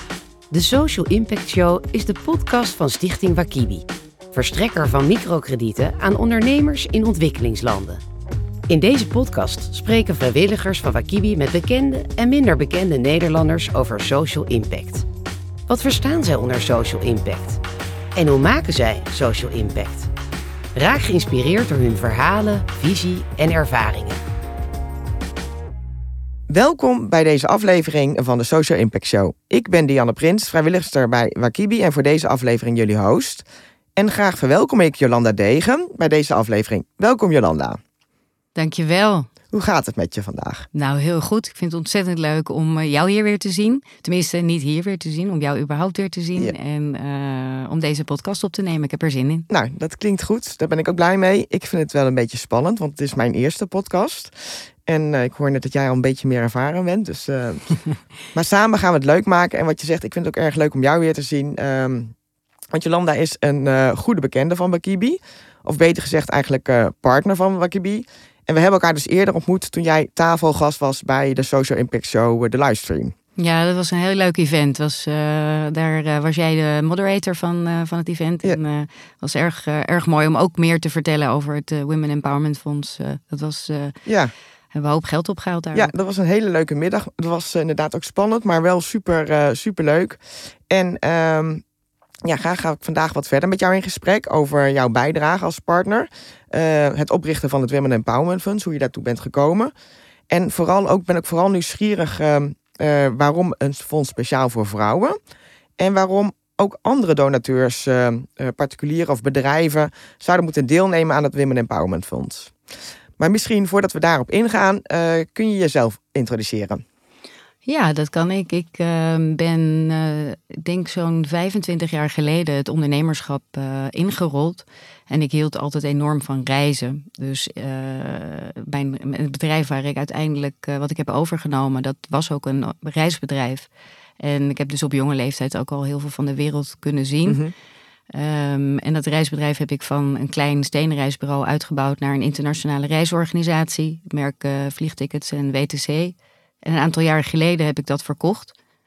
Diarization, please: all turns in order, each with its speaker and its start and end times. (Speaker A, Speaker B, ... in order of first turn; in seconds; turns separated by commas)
Speaker A: 0.5-8.0, Speaker A: 8.7-15.1, Speaker A: 15.7-17.6, Speaker A: 18.1-20.1, Speaker A: 20.7-24.2, Speaker B: 26.5-37.8, Speaker C: 38.5-39.3, Speaker B: 39.5-40.7, Speaker C: 40.7-49.5, Speaker B: 49.5-57.7, Speaker B: 58.3-62.1, Speaker B: 62.7-73.1, Speaker C: 73.4-84.0, Speaker B: 84.0-84.3, Speaker C: 84.7-85.9, Speaker B: 85.7-91.6, Speaker B: 92.2-99.7, Speaker B: 100.3-105.2, Speaker B: 105.8-112.5, Speaker B: 113.2-116.8, Speaker C: 117.7-133.7, Speaker C: 134.2-137.4, Speaker B: 137.3-137.5, Speaker C: 138.1-148.5